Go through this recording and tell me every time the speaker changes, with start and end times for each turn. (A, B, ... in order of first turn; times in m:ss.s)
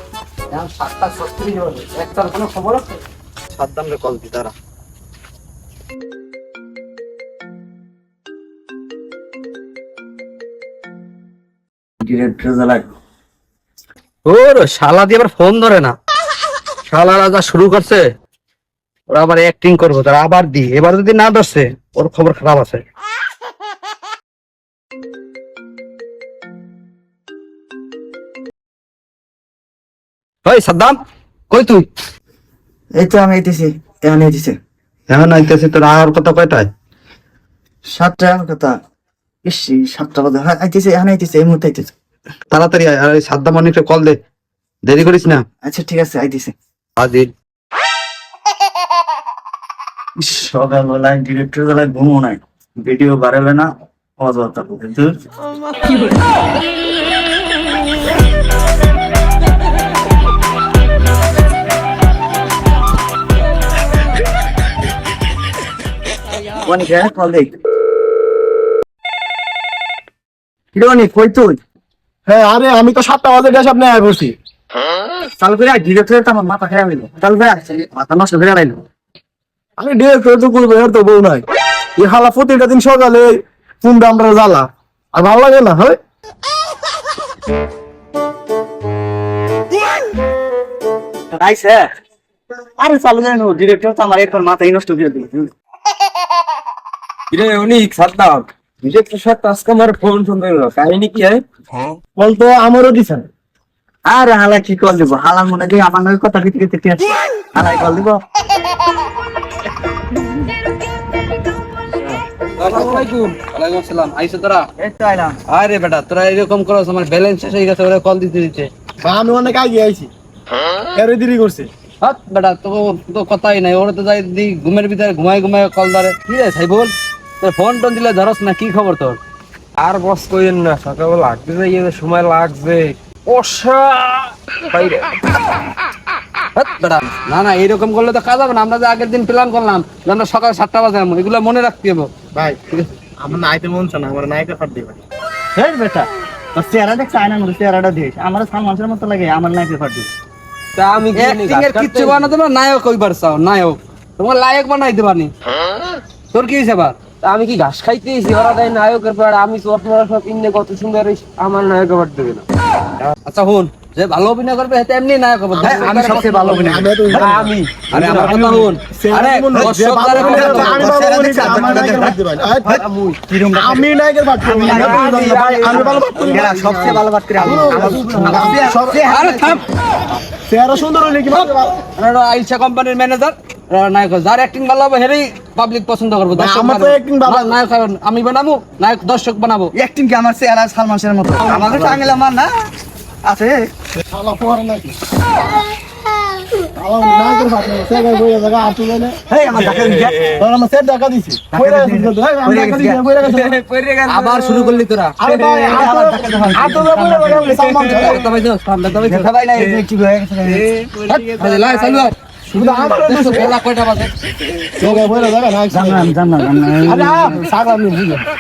0:00.5-0:03.0 A
0:03.5-0:04.5 A
0:12.0-0:12.9 B
0:14.3-0:16.0 A
0:16.9-0:18.1 A
0:19.1-0:22.8 A
0:30.4-0:31.9 A
0:33.0-0:34.6 B
0:35.1-0:36.7 A
0:37.9-0:38.8 B
0:39.4-0:41.9 B
0:42.5-0:44.2 A
0:44.9-0:45.4 A
0:45.6-0:46.5 B
0:47.0-0:47.3 A
0:50.2-0:53.7 B
0:54.2-0:55.1 B
1:06.6-1:07.5 B
1:10.7-1:11.6 B
1:12.3-1:14.4 C
1:15.4-1:18.8 B
1:19.8-1:21.4 C
1:22.0-1:26.0 C
1:31.3-1:31.9 B
1:32.8-1:35.5 B
1:37.3-1:41.4 D
1:42.2-1:43.3 C
1:44.1-1:48.2 B
1:52.0-1:53.4 D
1:52.6-1:54.7 A
1:54.8-1:55.4 B
1:55.5-1:58.7 A
1:59.0-2:00.1 C
2:01.0-2:01.7 C
2:02.0-2:09.2 A
2:09.8-2:15.2 D
2:16.6-2:22.1 A
2:22.3-2:22.6 C
2:23.2-2:25.0 C
2:25.6-2:30.1 B
2:30.8-2:32.3 D
2:31.1-2:35.3 A
2:36.3-2:37.0 A
2:37.2-2:42.4 D
2:43.3-2:46.6 A
2:45.6-2:47.5 C
2:45.6-2:47.3 B
2:47.1-2:48.8 D
2:47.9-2:50.9 A
2:48.1-2:48.4 C
2:48.9-2:52.8 C
2:50.1-2:50.7 D
2:50.2-2:52.2 B
2:51.7-2:52.0 D
2:52.6-2:53.2 D
2:52.7-2:53.9 B
2:53.6-2:56.5 C
2:54.4-2:59.6 B
2:54.6-2:58.6 D
2:57.4-2:59.0 C
2:59.1-2:59.6 A
3:00.5-3:01.8 C
3:02.0-3:09.7 A
3:06.4-3:07.6 C
3:09.8-3:12.5 B
3:11.4-3:12.1 C
3:13.2-3:13.7 B
3:14.1-3:15.0 C
3:16.8-3:19.2 C
3:19.3-3:20.4 B
3:20.4-3:23.6 C
3:21.5-3:23.1 B
3:23.2-3:25.8 D
3:24.1-3:25.2 A
3:25.2-3:28.2 C
3:25.7-3:27.7 B
3:27.5-3:28.2 D
3:27.9-3:29.3 A
3:28.9-3:30.7 B
3:30.4-3:32.1 D
3:31.4-3:34.1 A
3:32.5-3:33.5 C
3:34.8-3:36.2 C
3:34.8-3:35.2 D
3:35.7-3:37.4 B
3:36.8-3:37.6 C
3:36.9-3:38.2 D